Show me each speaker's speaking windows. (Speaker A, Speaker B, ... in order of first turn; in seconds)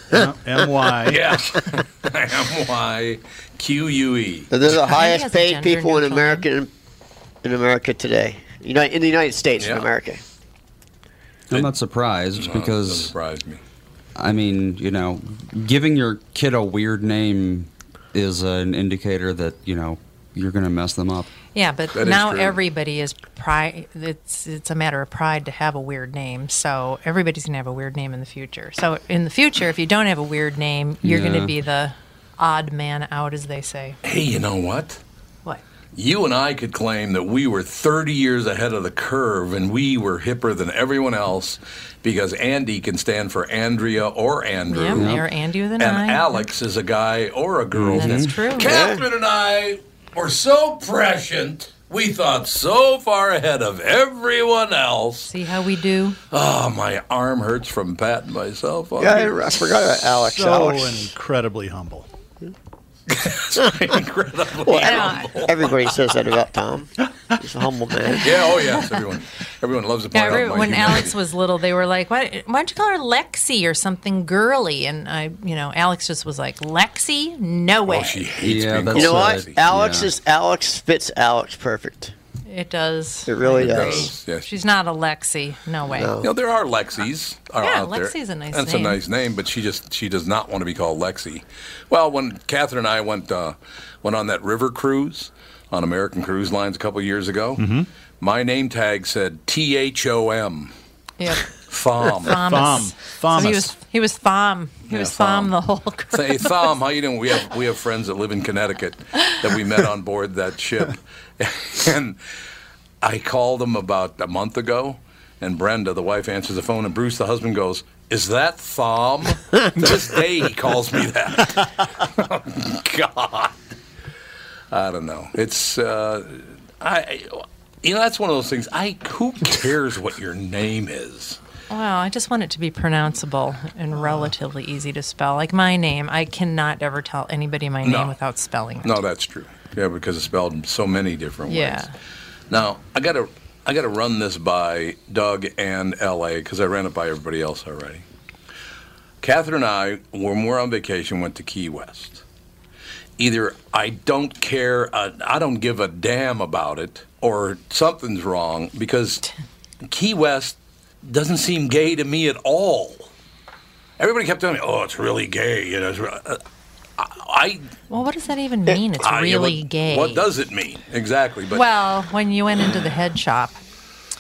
Speaker A: 0.1-1.4, 60.1-62.1, 97.6-97.9, 102.4-103.7
Speaker B: 1.1-4.5, 9.6-9.9, 12.4-13.6, 21.9-22.6, 34.0-35.0, 36.0-45.1, 45.8-55.3, 56.3-59.5, 63.1-65.9, 68.2-71.2, 77.9-79.5, 83.6-84.5, 86.2-97.7, 98.2-100.7, 101.7-102.6, 104.9-105.5, 106.1-112.2, 113.0-123.6, 124.7-131.4, 137.8-138.2, 138.8-141.9, 142.5-148.0, 149.2-152.2, 153.2-159.2, 159.8-163.1, 164.0-166.4, 167.0-167.7, 169.0-171.6
Speaker C: 4.5-6.7, 7.4-10.2, 48.6-49.0, 59.0-61.1, 64.6-68.5, 78.9-82.1, 83.3-84.1, 85.9-86.3
Speaker D: 4.8-6.5, 21.5-34.0, 44.7-46.5, 48.0-48.7, 55.3-56.2, 64.8-65.3, 70.1-78.2, 82.5-86.1, 87.6-89.0, 101.2-101.5, 102.2-106.5, 131.7-139.0, 141.5-141.9, 167.9-170.2, 171.5-173.6
Speaker E: 11.5-13.1, 14.2-21.3, 31.0-31.6, 44.9-45.2, 47.8-48.3, 78.4-80.1